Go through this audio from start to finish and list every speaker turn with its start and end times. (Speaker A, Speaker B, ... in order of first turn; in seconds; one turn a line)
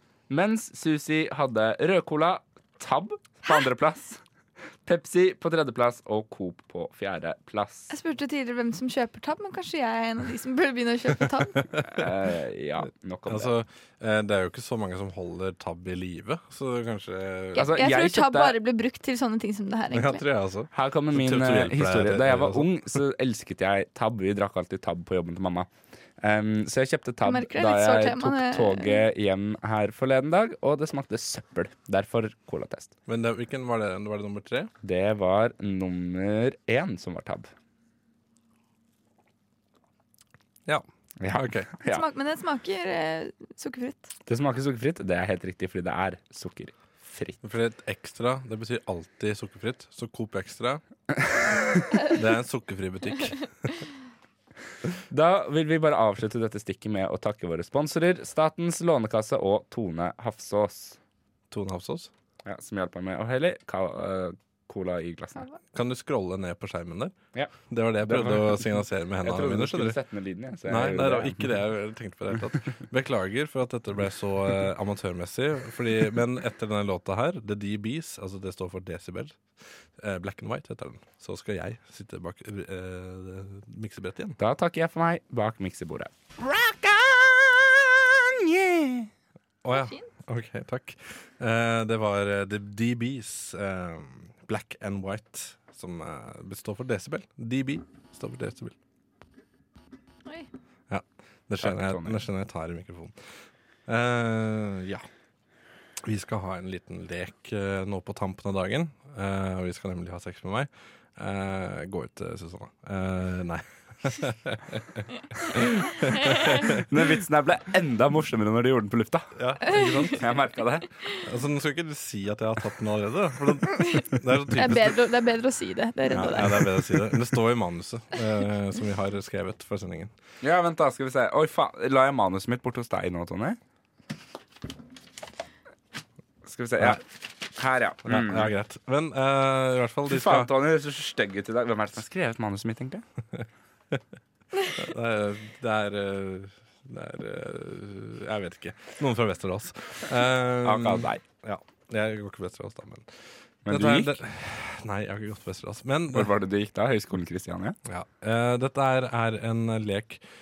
Speaker A: 0.3-4.2
Speaker A: 4.8-7.9
Speaker B: 7.9-11.7
Speaker A: 11.8-13.5
Speaker C: 13.3-17.8
Speaker B: 17.6-20.2
Speaker A: 17.6-18.6
Speaker C: 19.9-22.7
Speaker A: 20.7-25.7
Speaker A: 26.2-32.9
Speaker B: 27.2-29.0
Speaker C: 33.1-34.7
Speaker A: 34.8-37.5
Speaker C: 40.7-41.7
Speaker A: 41.2-42.0
Speaker B: 41.9-44.1
Speaker A: 44.3-47.4
Speaker C: 47.4-50.8
Speaker A: 51.2-51.9
Speaker C: 52.1-53.7
Speaker A: 55.1-61.0
Speaker C: 61.5-62.1
Speaker A: 62.5-65.5
Speaker C: 65.7-67.2
Speaker C: 67.7-70.0
Speaker A: 68.0-71.5
Speaker C: 70.7-79.4
Speaker C: 80.0-84.4
Speaker A: 84.4-89.1
Speaker C: 89.6-98.8
Speaker B: 89.7-90.1
Speaker C: 100.9-103.2
Speaker A: 101.6-102.2
Speaker C: 103.9-105.1
Speaker C: 106.0-116.8
Speaker A: 116.5-120.9
Speaker C: 119.3-120.3
Speaker C: 121.2-125.0
Speaker B: 123.8-127.0
Speaker C: 126.1-130.1
Speaker A: 130.4-133.6
Speaker A: 136.4-138.5
Speaker C: 138.1-140.5
Speaker A: 140.1-143.0
Speaker C: 143.4-144.0
Speaker C: 144.7-153.1
Speaker A: 150.6-151.2
Speaker A: 153.7-154.2
Speaker C: 153.7-156.3
Speaker A: 156.1-157.8
Speaker C: 157.9-160.2